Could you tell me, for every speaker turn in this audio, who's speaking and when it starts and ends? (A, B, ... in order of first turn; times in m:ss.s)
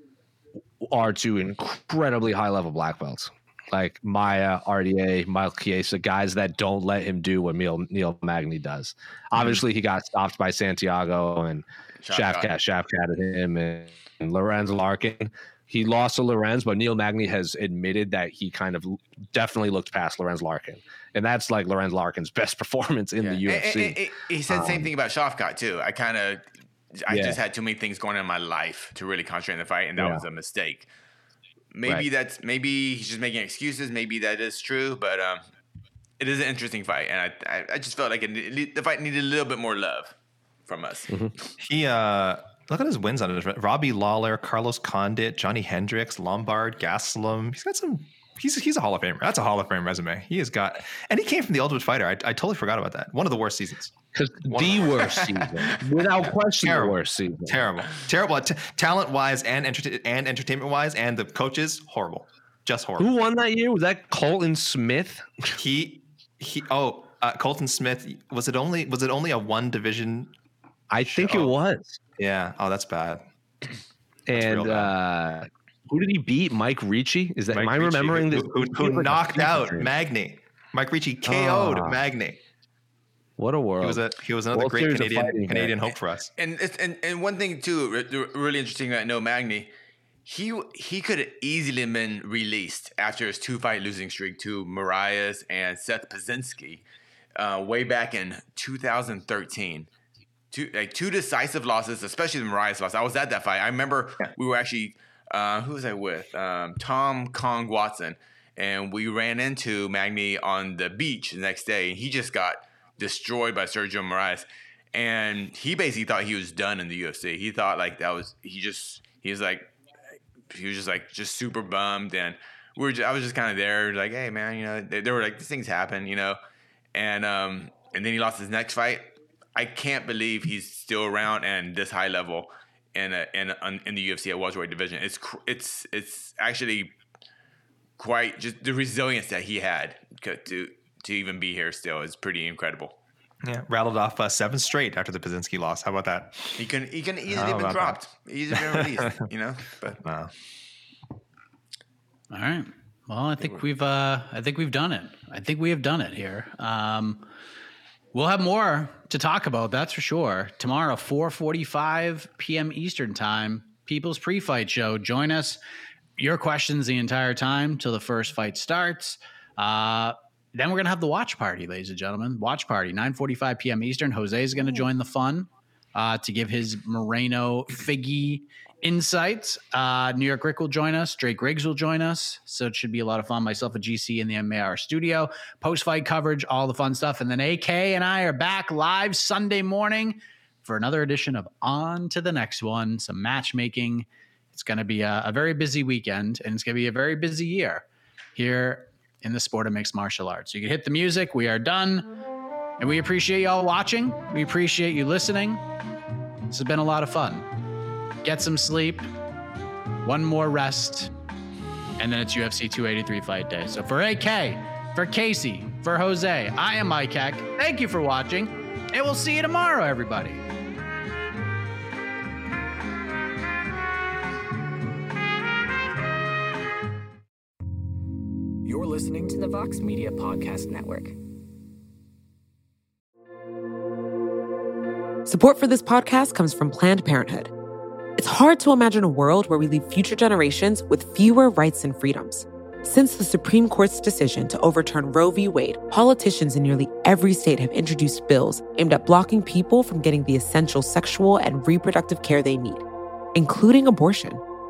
0:00.8-0:24.9 A
0:12.0-0:12.5 B
0:23.2-0:30.9 B
0:27.1-0:27.4 A
0:30.0-0:30.2 A
0:31.7-0:35.4 B
0:36.2-0:40.1 B
0:40.7-0:41.5 B
0:41.6-0:54.0 C
0:54.2-0:57.6 A
0:54.5-0:55.3 C
0:56.2-1:03.1 C
1:03.0-1:05.6 A
1:05.6-1:10.3 C
1:10.9-1:12.0 A
1:11.0-1:11.5 C
1:12.2-1:13.2 C
1:14.3-1:19.9 A
1:14.3-1:14.9 C
1:17.5-1:22.4 C
1:21.2-1:22.0 A
1:23.4-1:25.8 A
1:23.8-1:26.3 C
1:26.4-1:29.7 B
1:30.2-1:36.8 B
1:37.4-1:39.9 B
1:40.5-1:59.7 B
2:00.5-2:06.4 B
2:06.9-2:17.0 B
2:18.0-2:23.0 B
2:23.4-2:26.6 C
2:26.6-2:30.1 B
2:27.3-2:29.2 C
2:30.0-2:30.3 C
2:32.3-2:37.3 D
2:38.1-2:45.6 D
2:46.2-3:22.1 D
3:22.8-3:25.6 D
3:26.5-3:27.5 D
3:28.2-3:29.1 D
3:30.0-3:31.1 D
3:32.0-3:40.4 D
3:48.6-3:51.2 E
3:55.3-3:57.5 F
3:58.2-4:12.8 F
4:13.4-4:14.4 F